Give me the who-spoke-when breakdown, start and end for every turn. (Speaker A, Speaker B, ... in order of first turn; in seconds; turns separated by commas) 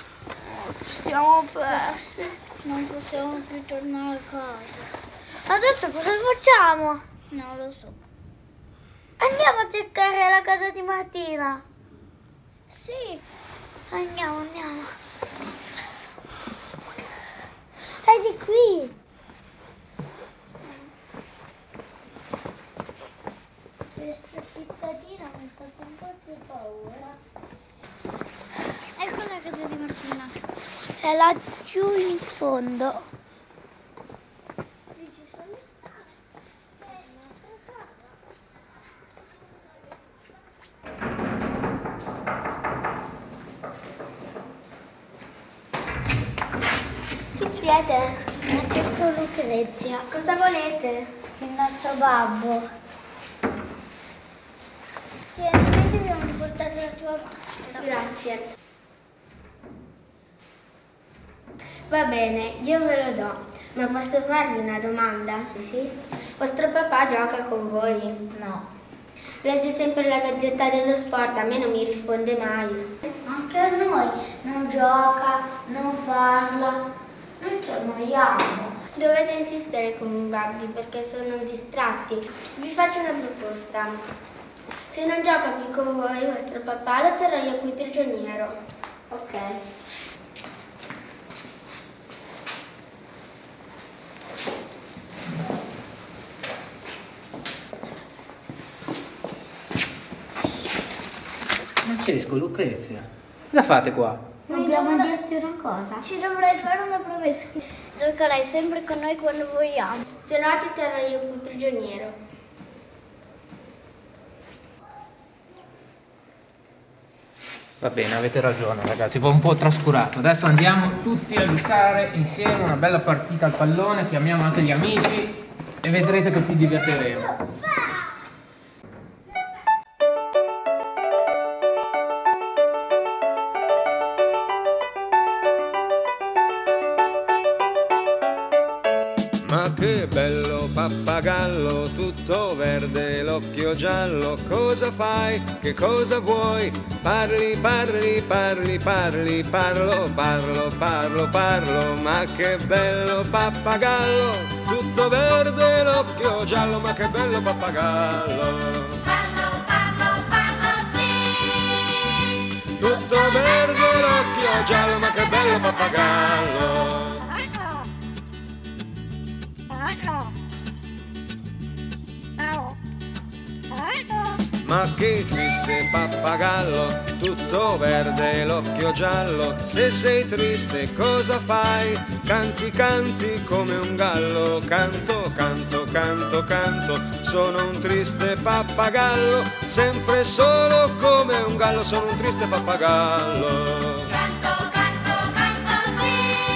Speaker A: 0.9-4.9, Speaker A: 5.5-8.0, Speaker A: 9.2-11.6, Speaker A: 12.7-13.2, Speaker A: 13.9-14.9, Speaker A: 18.0-18.9, Speaker A: 23.9-27.2, Speaker A: 29.0-30.4, Speaker A: 31.0-33.1, Speaker A: 35.0-36.0, Speaker A: 36.8-37.8, Speaker B: 47.4-48.2, Speaker A: 48.4-50.1, Speaker B: 50.1-51.0, Speaker A: 51.4-52.7, Speaker A: 55.4-58.1, Speaker B: 57.8-58.4, Speaker B: 61.9-65.5, Speaker A: 65.6-65.9, Speaker B: 66.4-68.2, Speaker A: 68.3-68.6, Speaker B: 69.4-72.8, Speaker A: 73.2-76.8, Speaker A: 77.4-78.8, Speaker B: 79.0-84.0, Speaker B: 84.9-88.6, Speaker A: 89.1-89.5, Speaker C: 101.8-104.2, Speaker A: 104.5-110.0, Speaker B: 110.2-112.2, Speaker C: 117.8-127.4, Speaker A: 127.2-128.0, Speaker D: 139.4-159.3, Speaker D: 160.6-161.6, Speaker D: 162.6-167.3, Speaker D: 174.6-194.3